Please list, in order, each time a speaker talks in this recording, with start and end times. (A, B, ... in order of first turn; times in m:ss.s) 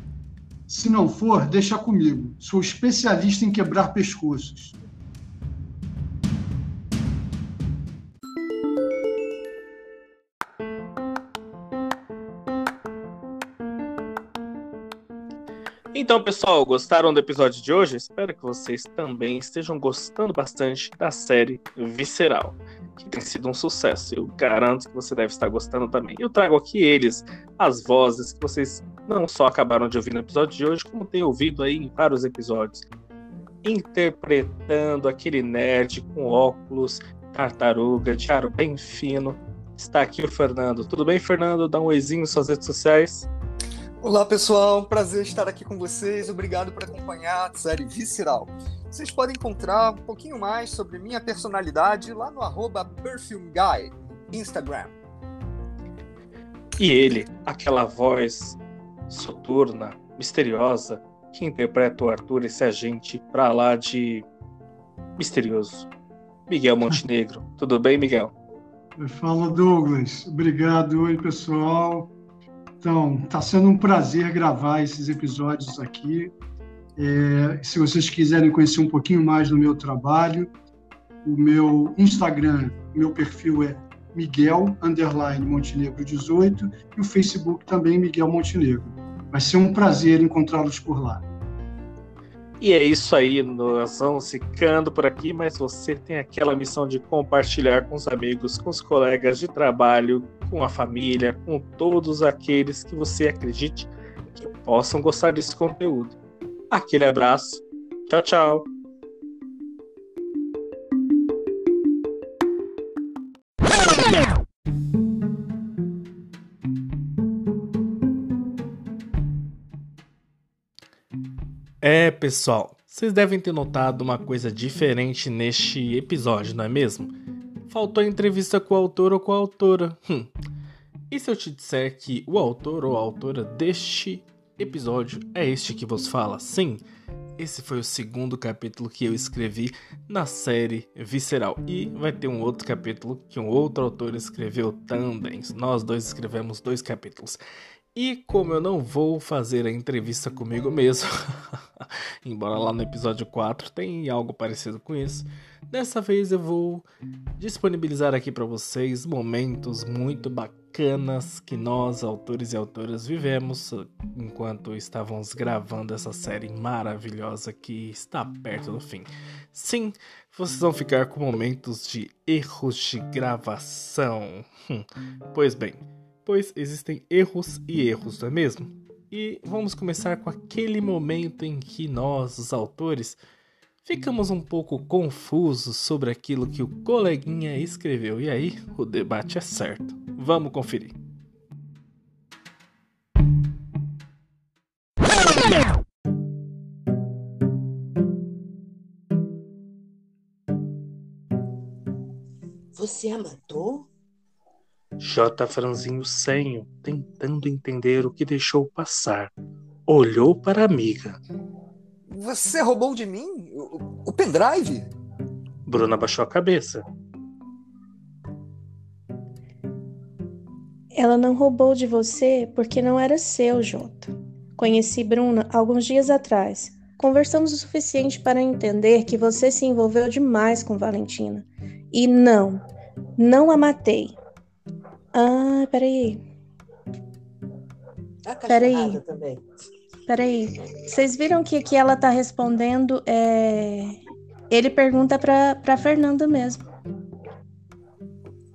0:00.7-0:04.8 A
0:15.9-0:32.9 B
0:33.6-0:43.3 B
0:44.0-0:54.9 C
0:56.8-1:04.2 B
1:05.2-1:05.9 B
1:06.5-1:08.3 B
1:09.0-1:12.1 A
1:12.8-1:16.3 A
1:17.0-1:20.5 A
1:21.2-1:31.2 A
1:32.6-1:46.2 B
1:46.7-1:48.7 B
2:01.8-2:07.1 B
2:07.7-2:10.3 B
2:11.1-2:16.8 B
2:17.4-2:27.4 B
2:27.9-2:36.9 B
2:37.4-3:03.2 B
3:03.8-3:10.9 B
3:22.7-3:23.9 D
3:25.0-3:29.3 B
3:29.9-3:31.2 B
3:32.1-3:34.9 C
3:35.7-3:36.8 B
3:40.9-3:52.6 E
3:53.2-3:54.2 E
3:55.1-3:56.2 E
3:58.2-3:59.4 D
3:58.5-3:59.0 E
4:00.1-4:04.0 E
4:04.5-4:06.6 E